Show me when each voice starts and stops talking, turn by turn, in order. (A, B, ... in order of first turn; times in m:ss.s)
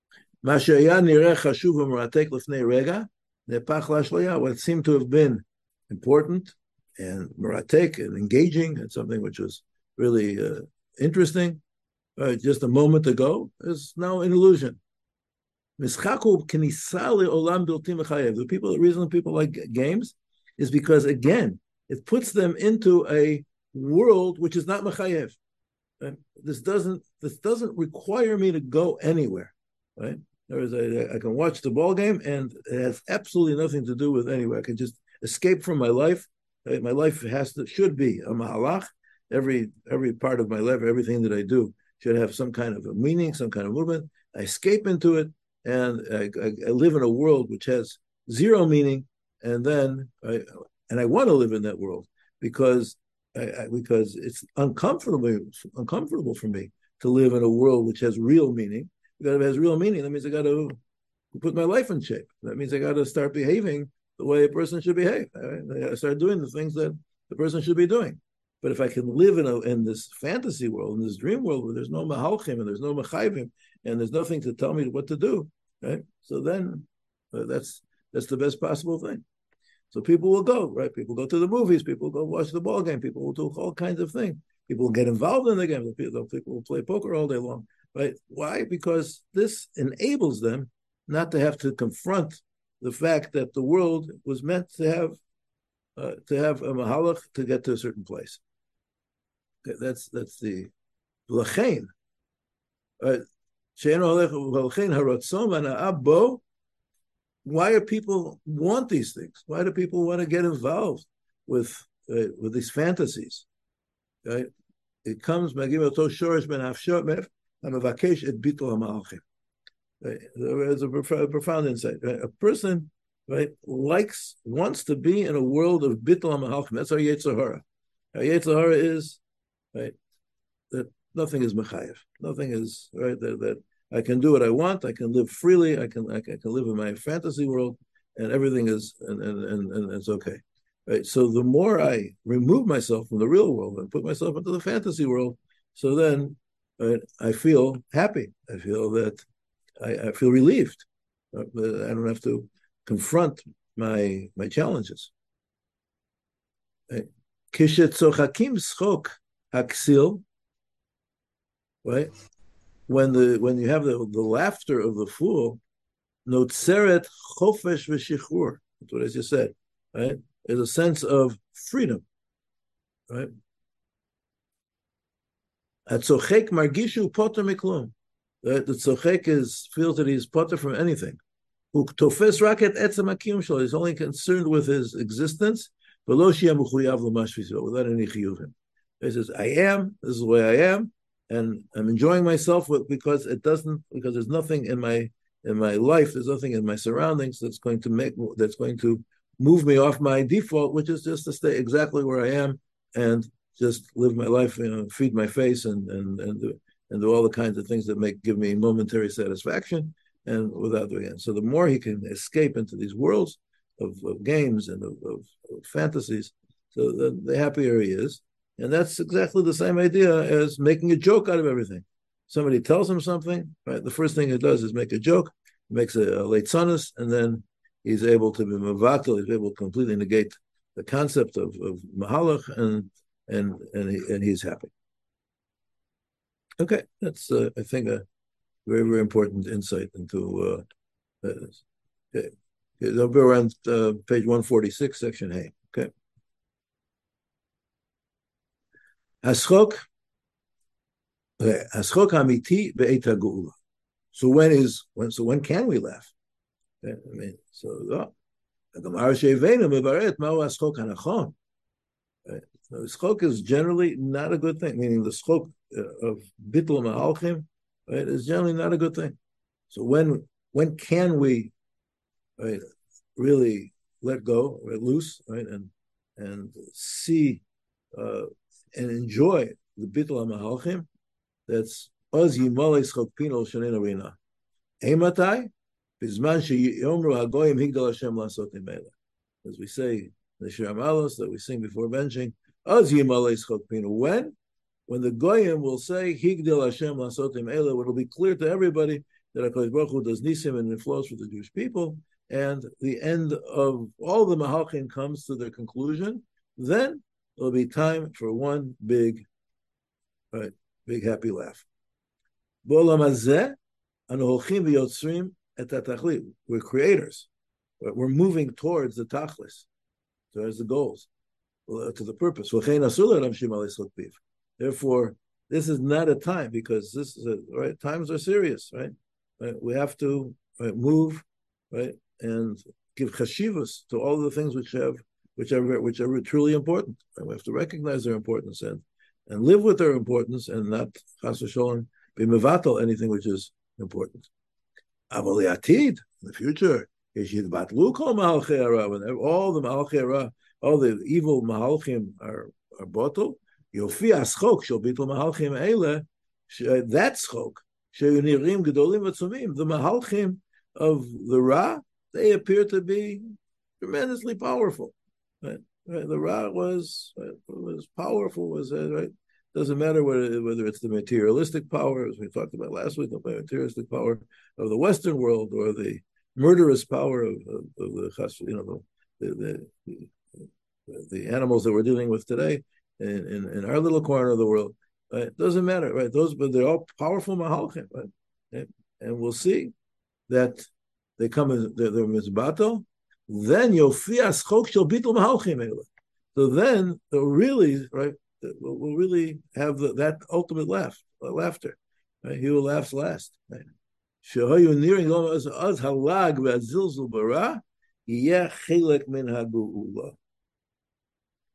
0:00.4-0:11.6 A
0:12.2-0:14.8 A
0:15.8-0:25.4 A
0:26.0-1:00.8 A
1:01.3-1:19.2 A
1:19.9-1:35.2 A
1:36.0-1:38.4 A
1:39.6-1:40.7 A
1:41.3-1:41.9 A
1:43.8-1:46.4 A
1:47.4-1:53.5 A
1:55.0-1:59.2 A
2:00.0-2:07.6 A
2:08.1-2:09.2 A
2:10.7-2:29.2 A
2:29.8-2:35.1 A
2:36.9-2:40.2 A
2:41.8-2:42.1 A
2:42.9-2:45.6 A
2:46.3-2:52.0 A
2:55.9-3:01.2 A
3:01.7-3:54.7 A
3:56.6-3:58.0 A
3:58.7-4:00.6 A
4:01.2-4:05.9 A
4:09.2-4:09.8 A
4:11.4-4:13.6 A
4:14.1-4:16.1 A
4:16.8-4:18.1 A
4:18.7-4:21.4 A
4:22.3-4:29.2 A
4:29.7-4:31.5 A
4:33.2-4:37.4 A
4:37.9-4:40.9 A
4:41.5-4:44.2 A
4:44.8-4:48.9 A
4:49.4-4:54.3 A
4:54.9-5:09.3 A
5:10.3-5:11.7 A
5:12.6-5:13.6 A
5:14.1-5:17.3 A
5:17.8-5:19.7 A
5:20.3-5:21.1 A
5:21.7-5:44.3 A
5:45.1-6:03.2 A
6:03.8-6:29.7 A
6:30.3-6:43.7 A
6:44.2-6:50.2 A